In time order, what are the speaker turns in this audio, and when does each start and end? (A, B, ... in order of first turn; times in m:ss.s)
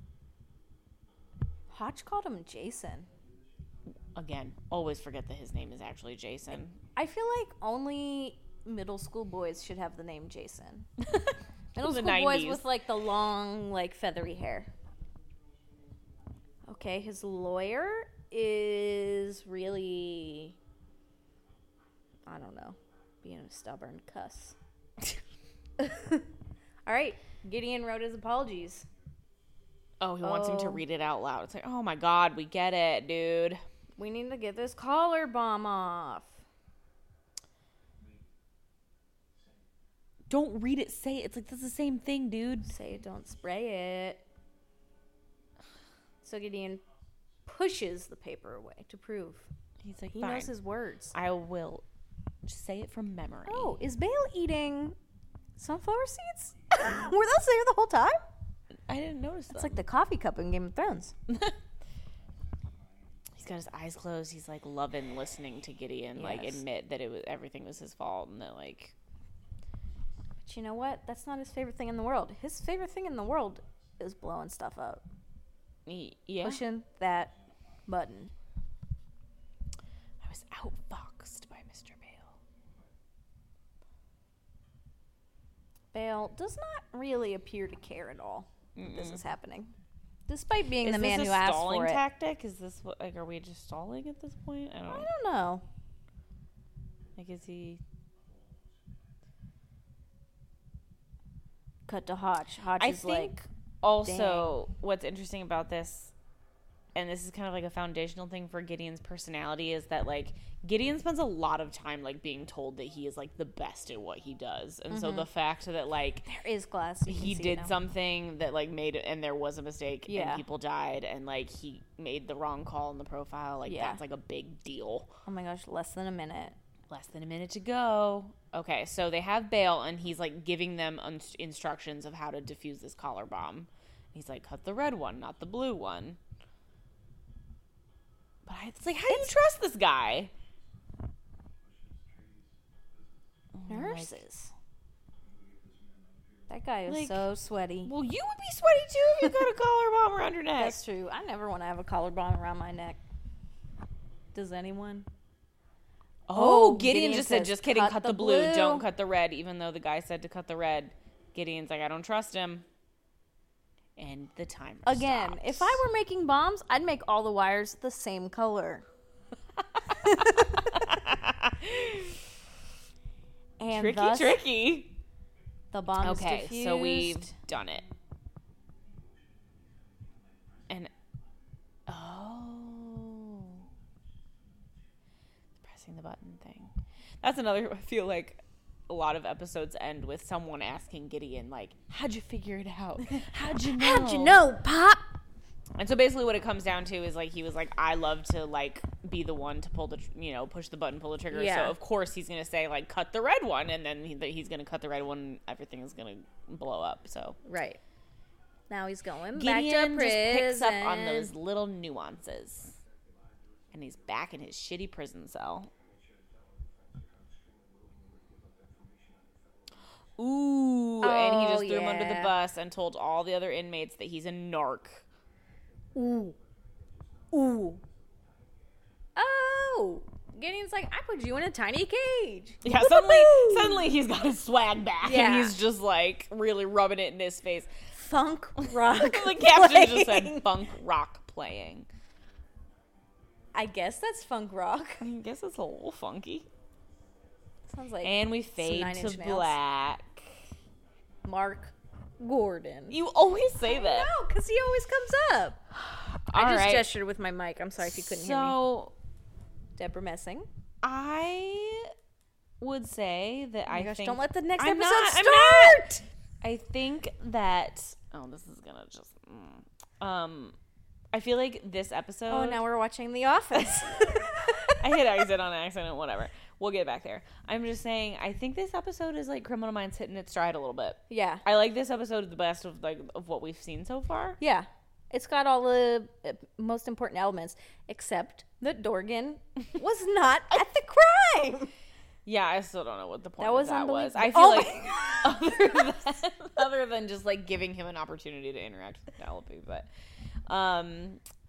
0:01.7-0:03.1 A
0:04.1-0:06.8 B
0:07.0-0:10.8 A
0:11.0-0:12.6 B
0:11.8-0:14.7 A
0:16.7-0:20.6 A
0:22.2-0:24.6 A
0:25.8-0:26.3 A
0:26.8-0:28.9 A
0:30.0-0:33.6 B
0:30.2-0:30.8 A
0:34.0-0:36.4 A
0:40.3-0:42.7 B
0:42.7-0:44.2 A
0:46.2-0:46.8 A
0:47.4-0:49.5 A
0:49.8-0:50.5 B
0:50.1-0:51.1 A
0:51.1-0:51.8 B
0:52.4-0:53.8 B
0:53.5-0:55.0 A
0:55.6-0:58.2 A
0:58.9-0:59.8 B
0:59.5-1:01.1 A
1:01.3-1:01.5 B
1:03.3-1:08.9 B
1:06.2-1:06.6 A
1:10.4-1:15.0 A
1:15.8-1:16.6 B
1:16.4-1:17.3 A
1:17.9-1:18.3 A
1:20.2-1:22.3 B
1:25.9-1:29.7 A
1:28.7-1:29.2 B
1:30.3-1:32.0 A
1:30.8-1:35.1 B
1:34.9-1:35.6 A
1:37.2-1:37.8 B
1:41.9-1:43.3 A
1:42.8-1:46.1 B
1:44.0-1:44.5 A
1:46.9-1:56.3 B
1:54.9-1:55.3 A
1:56.2-1:57.7 A
1:57.0-2:05.1 B
2:00.1-2:00.4 A
2:03.6-2:04.0 A
2:05.2-2:06.6 A
2:06.9-2:16.2 B
2:18.4-2:20.3 B
2:19.1-2:19.3 A
2:23.5-2:24.2 B
2:23.7-2:24.5 A
2:26.5-2:27.9 A
2:26.8-2:27.2 B
2:27.8-2:30.8 B
2:30.6-2:33.0 A
2:34.3-2:35.0 A
2:36.3-2:42.6 B
2:36.3-2:38.8 A
2:44.0-2:45.8 B
2:44.8-2:48.8 A
2:49.9-2:50.8 A
2:50.0-2:52.3 B
2:53.6-2:54.4 A
2:53.7-2:55.0 B
2:55.7-2:57.3 A
2:56.0-2:57.8 B
3:01.9-3:03.7 B
3:05.6-3:14.4 B
3:13.1-3:15.1 A
3:15.8-3:27.4 B
3:21.3-3:21.8 A
3:27.4-3:27.8 A
3:28.7-3:31.3 A
3:29.3-3:32.8 B
3:33.7-3:35.7 B
3:40.2-3:45.0 B
3:41.0-3:42.3 A
3:45.9-3:46.4 A
3:47.3-3:47.8 A
3:49.2-3:53.9 A
3:52.6-3:57.7 B
3:55.0-3:55.6 A
3:57.9-4:00.5 A
3:58.6-4:01.9 B
4:03.5-4:05.0 A
4:05.0-4:06.5 B
4:07.7-4:09.6 A
4:08.0-4:10.4 B
4:11.2-4:13.0 A
4:12.9-4:14.1 B
4:13.6-4:15.6 A
4:15.7-4:16.9 B
4:16.3-4:18.6 A
4:17.8-4:18.9 B
4:19.8-4:20.5 A
4:20.8-4:21.9 B
4:22.6-4:25.9 B
4:23.7-4:26.0 A
4:26.4-4:30.5 B
4:31.1-4:32.6 B
4:32.3-4:34.9 A
4:33.5-4:44.4 B
4:41.1-4:41.4 A
4:44.4-4:51.7 A
4:52.2-4:59.9 B
4:53.4-4:55.8 A
5:00.5-5:01.2 B